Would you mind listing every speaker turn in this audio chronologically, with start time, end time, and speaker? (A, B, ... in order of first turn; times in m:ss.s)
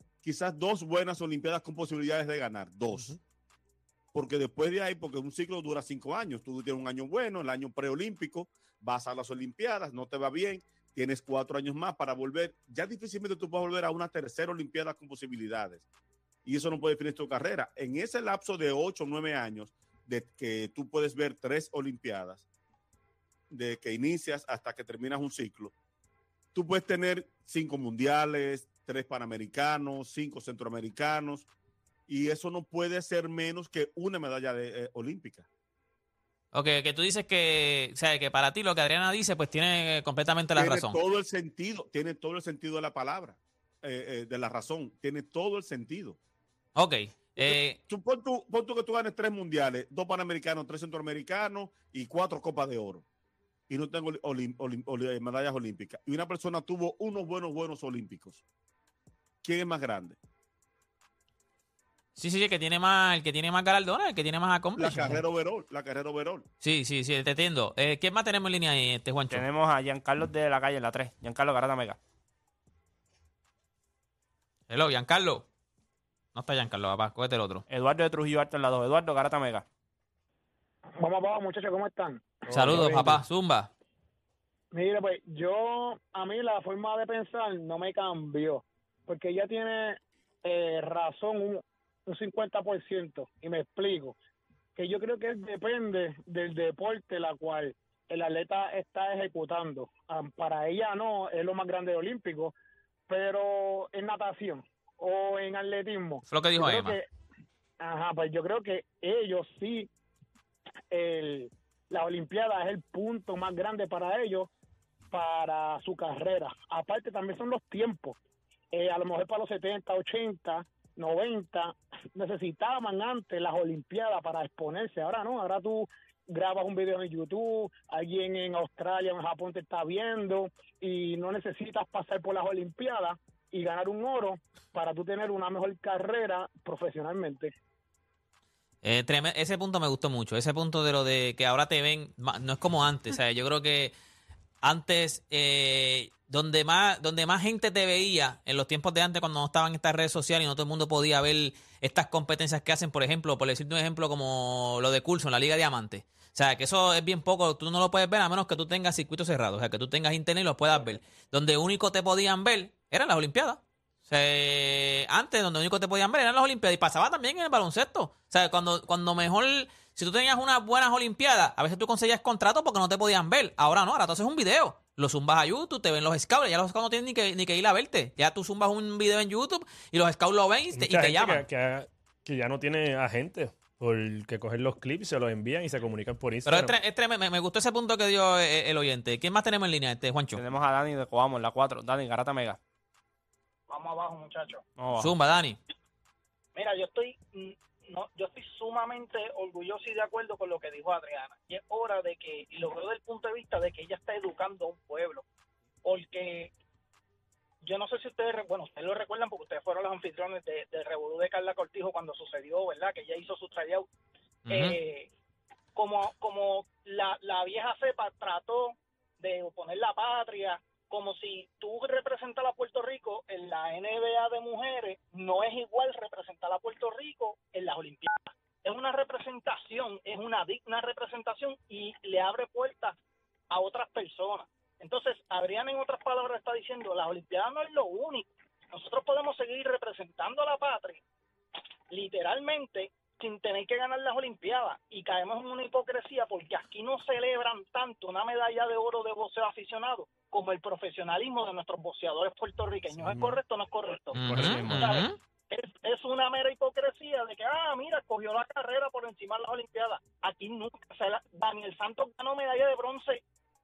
0:00.2-0:03.2 A
0:04.1-0:15.8 A
0:16.4-0:22.4 A
0:23.5-0:25.7 A
0:26.5-0:31.5 A
0:32.1-0:35.5 A
0:36.5-0:41.0 B
0:40.5-0:46.2 A
0:46.8-0:47.8 B
0:47.4-0:53.0 A
0:53.7-0:58.4 A
0:59.4-1:00.2 A
1:02.2-1:05.2 B
1:04.8-1:06.4 A
1:06.6-1:09.4 B
1:09.3-1:12.0 C
1:14.7-1:15.4 B
1:16.3-1:17.6 B
1:17.7-1:19.6 C
1:21.0-1:23.1 D
1:22.5-1:23.2 E
1:22.5-1:23.7 B
1:24.7-1:34.2 D
1:34.8-1:42.5 D
1:43.1-1:47.1 D
1:46.3-1:47.0 B
1:47.8-1:49.9 D
1:50.9-1:54.5 D
1:55.1-1:58.2 D
1:58.7-2:17.5 D
2:18.8-2:23.9 B
2:24.6-3:01.4 B
3:00.7-3:06.7 E
3:06.4-3:10.4 B
3:10.3-3:12.6 C
3:13.7-3:14.6 F
3:14.8-3:15.1 C
3:14.9-3:15.6 B
3:16.5-3:25.2 F
3:25.8-3:26.5 F
3:27.6-3:33.8 F
3:34.5-3:34.8 B
3:34.5-3:35.1 F
3:35.7-3:53.0 F
3:53.5-4:01.0 F
4:01.9-4:23.2 F
4:14.1-4:15.2 B
4:14.2-4:15.0 C